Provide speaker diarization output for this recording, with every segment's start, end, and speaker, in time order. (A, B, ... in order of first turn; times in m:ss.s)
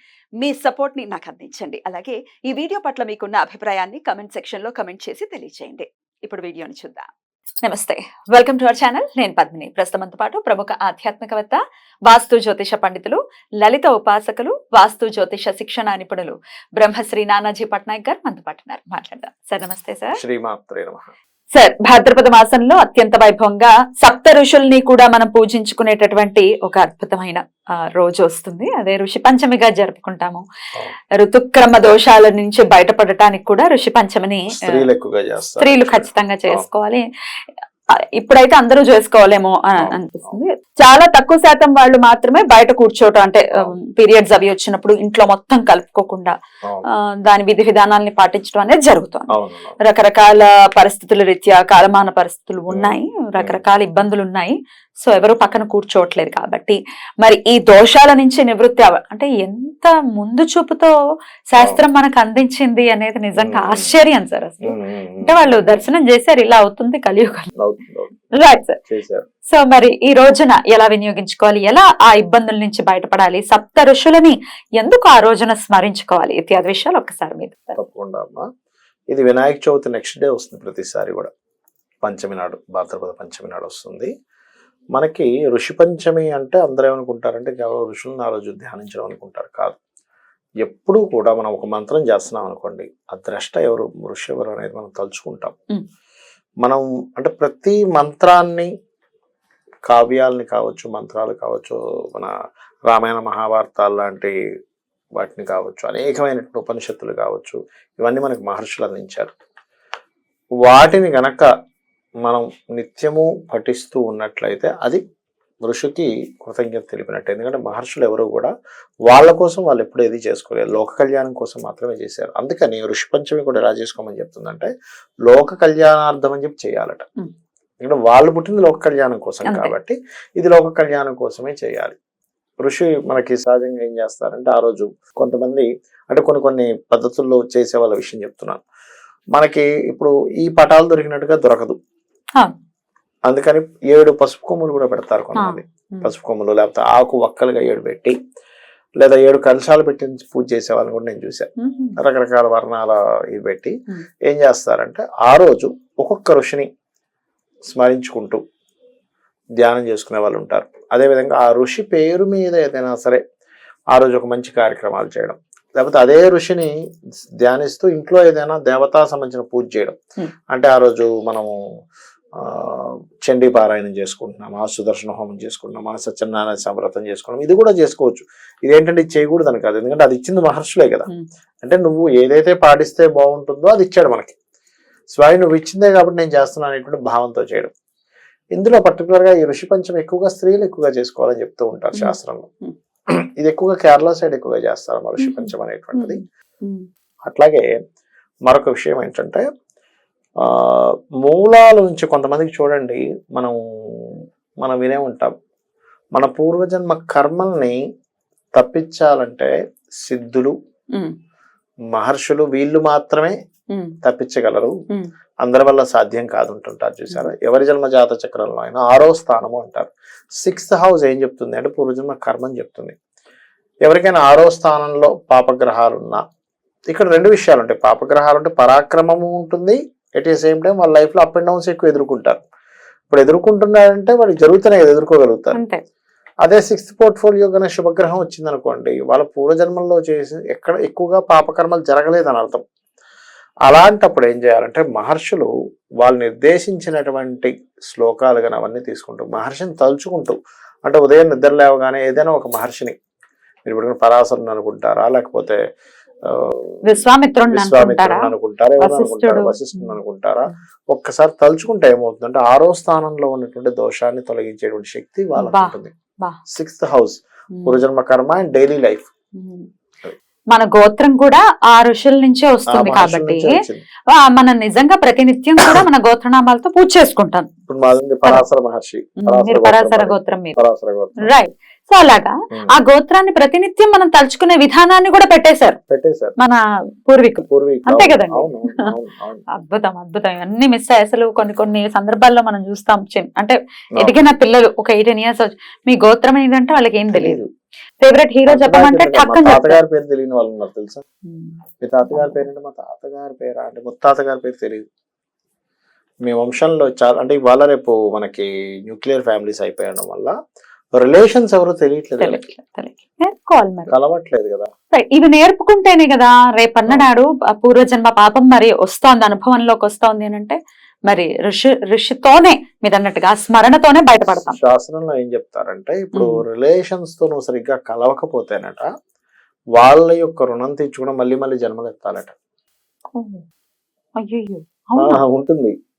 0:00.4-0:07.0 A
0:07.6-0:20.2 A
0:20.2-0:21.1 B
0:21.5-0:30.4 A
0:31.2-0:34.8 A
0:34.5-0:36.7 B
0:35.6-0:37.0 A
0:38.2-0:46.3 A
0:39.8-0:40.4 B
0:47.2-1:00.9 A
0:49.3-0:49.8 B
0:52.7-0:53.6 B
1:01.5-1:07.5 A
1:03.4-1:03.9 B
1:04.6-1:05.9 B
1:07.6-1:08.2 B
1:08.4-1:08.8 A
1:08.9-1:09.2 B
1:09.5-1:17.8 A
1:17.8-1:18.4 B
1:19.1-1:21.3 B
1:22.0-1:24.1 B
1:24.9-1:29.8 B
1:30.6-1:35.6 B
1:36.6-1:38.7 B
1:39.9-1:42.3 B
1:42.9-1:44.3 B
1:45.2-1:49.3 B
1:50.6-1:51.5 B
1:52.2-1:55.0 B
1:55.6-1:58.5 B
1:59.1-2:04.7 B
2:05.2-2:07.0 B
2:07.8-2:12.0 B
2:09.4-2:09.7 A
2:12.6-2:18.6 B
2:19.3-2:21.8 B
2:23.3-2:28.2 B
2:25.4-2:26.1 A
2:29.0-2:31.5 B
2:31.6-2:32.0 A
2:32.0-2:33.7 B
2:34.3-2:36.7 B
2:37.7-2:38.4 B
2:39.6-2:43.2 B
2:43.9-2:46.7 B
2:47.4-2:50.0 B
2:50.5-2:51.5 B
2:52.4-3:01.1 B
3:01.6-3:04.4 B
3:05.1-3:07.7 B
3:08.5-3:12.5 B
3:11.9-3:12.8 A
3:13.4-3:16.2 B
3:15.2-3:16.8 A
3:17.3-3:17.6 B
3:18.5-3:19.4 B
3:20.4-3:24.0 B
3:24.6-3:25.3 B
3:26.2-3:27.8 B
3:28.6-3:29.5 B
3:30.0-3:30.5 B
3:31.9-3:33.4 B
3:34.0-3:34.7 B
3:35.4-3:43.0 B
3:43.8-3:46.2 B
3:46.9-3:52.4 B
3:53.1-3:55.6 B
3:55.5-3:55.8 A
3:56.4-4:02.6 B
4:03.6-4:12.9 B
4:13.6-4:15.6 B
4:16.3-4:25.9 B
4:16.9-4:20.0 A
4:25.4-4:26.4 A
4:26.5-4:29.1 B
4:27.5-4:27.8 A
4:29.4-4:29.7 A
4:30.5-4:37.5 A
4:32.7-4:33.8 B
4:37.7-4:41.3 B
4:39.2-4:40.6 A
4:41.2-4:45.8 A
4:45.9-4:46.4 B
4:46.4-4:48.9 A
4:47.4-4:49.4 B
4:49.6-4:57.4 A
4:57.1-4:57.5 B
4:58.0-4:59.8 A
4:58.5-5:01.0 B
5:01.2-5:02.4 A
5:01.8-5:04.8 B
5:06.2-5:10.3 B
5:10.9-5:12.4 B
5:12.2-5:13.9 A
5:13.9-5:14.7 B
5:14.9-5:20.6 A
5:21.1-5:24.6 A
5:24.3-5:28.9 B
5:26.1-5:26.4 A
5:29.8-5:32.3 B
5:33.1-5:33.4 A
5:34.2-5:35.2 A
5:35.0-5:35.8 B